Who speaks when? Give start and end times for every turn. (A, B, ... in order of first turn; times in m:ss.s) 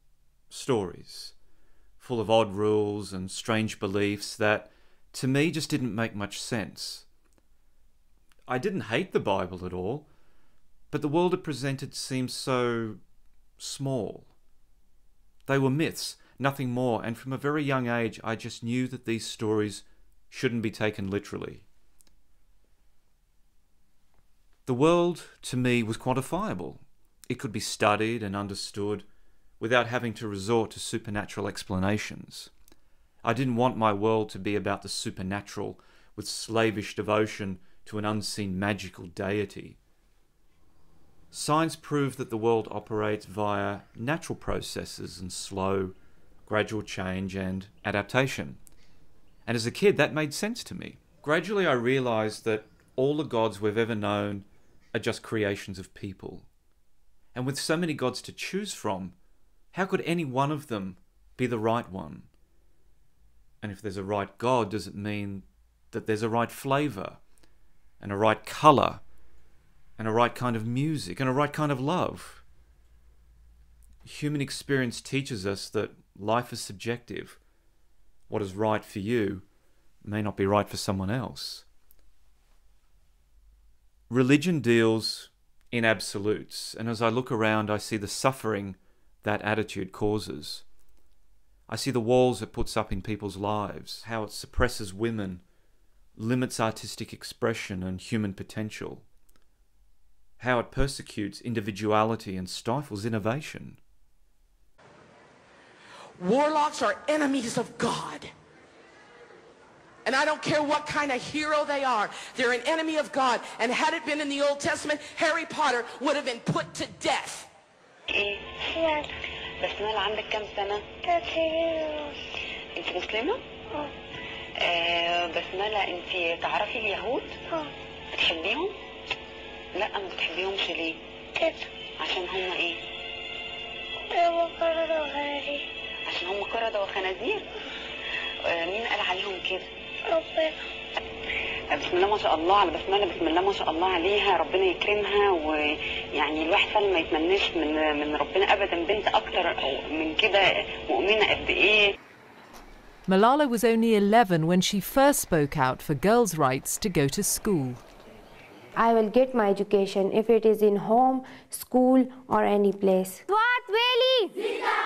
0:00.5-0:01.3 A
0:02.0-0:07.0 A
0:08.5-0:10.1 A
0:10.9-0:13.0 A
0:13.6-0:14.3 A
0:15.5-0:21.6 A
0:24.6-0:29.0 A
0:29.6-0:32.5 A
0:33.2-0:39.8 A
0:41.3-0:48.6 A
0:49.4-0:56.5 A
0:57.3-0:59.1 A
0:59.7-1:02.3 A
1:03.6-1:07.2 A
1:08.0-1:09.0 A
1:10.0-1:12.4 A
1:14.0-1:17.4 A
1:18.3-1:19.4 A
1:20.0-1:21.6 A
1:24.1-1:30.6 A
1:31.7-1:35.4 A
1:36.2-1:39.0 A
1:40.4-1:43.8 A
1:46.2-1:48.3 B
1:50.0-1:57.5 B
1:58.1-1:58.9 C
1:58.7-1:59.1 D
1:59.6-2:00.9 C
2:01.0-2:02.1 D
2:02.7-2:03.4 C
2:04.6-2:07.4 C
2:08.1-2:08.7 C
2:09.7-2:11.0 C
2:11.4-2:11.6 D
2:12.0-2:12.8 C
2:14.1-2:15.6 D
2:16.0-2:17.4 C
2:18.5-2:19.7 C
2:20.1-2:20.6 D
2:21.7-2:31.9 C
2:33.1-2:37.8 E
2:38.8-2:43.4 F